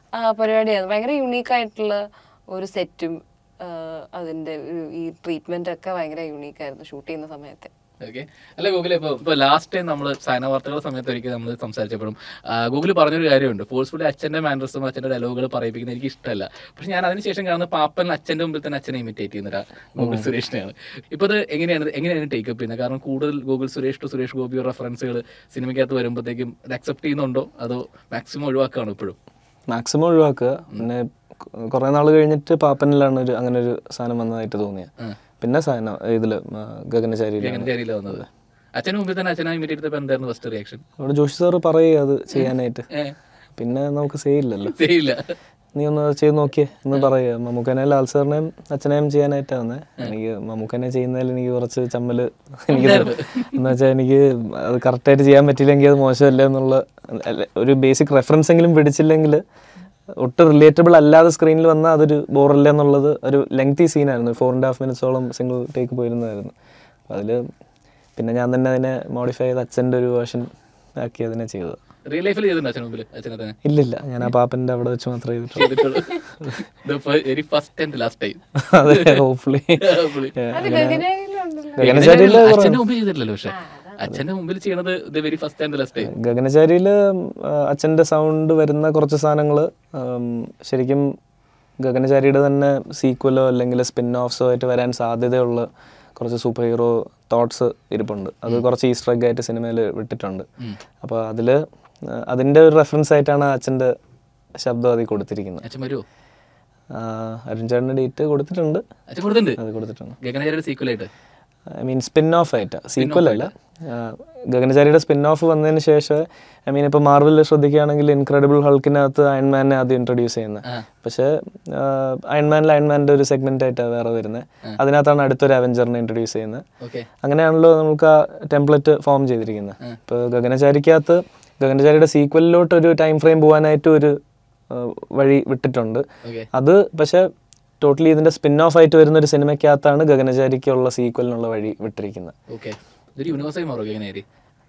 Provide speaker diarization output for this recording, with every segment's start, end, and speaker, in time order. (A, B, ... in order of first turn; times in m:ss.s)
0:00.1-0:07.7 A
0:08.0-0:29.2 B
0:20.0-0:20.3 C
0:29.7-0:38.2 C
0:37.4-0:40.8 B
0:41.0-0:42.9 C
0:42.4-0:43.1 B
0:43.6-0:44.8 C
0:44.6-0:45.3 B
0:45.8-0:59.4 C
0:52.7-0:53.6 B
1:00.2-1:06.5 C
1:07.1-1:07.5 C
1:08.2-1:11.8 C
1:12.1-1:13.6 B
1:13.6-1:15.9 C
1:15.6-1:19.2 B
1:18.6-1:21.0 C
1:19.8-1:20.4 B
1:20.5-1:22.2 A
1:21.8-1:22.8 C
1:21.8-1:26.1 B
1:23.5-1:24.0 A
1:26.0-1:31.1 C
1:31.8-1:40.5 C
1:41.0-1:43.9 C
1:44.6-1:45.6 C
1:45.6-1:46.0 B
1:46.9-1:48.8 C
1:49.1-1:49.6 B
1:49.6-1:50.2 C
1:50.2-1:51.1 B
1:51.8-2:06.6 C
1:53.0-1:53.5 B
2:06.8-2:07.1 B
2:07.2-2:14.2 C
2:14.7-2:17.3 C
2:17.8-2:22.4 C
2:22.5-2:24.2 B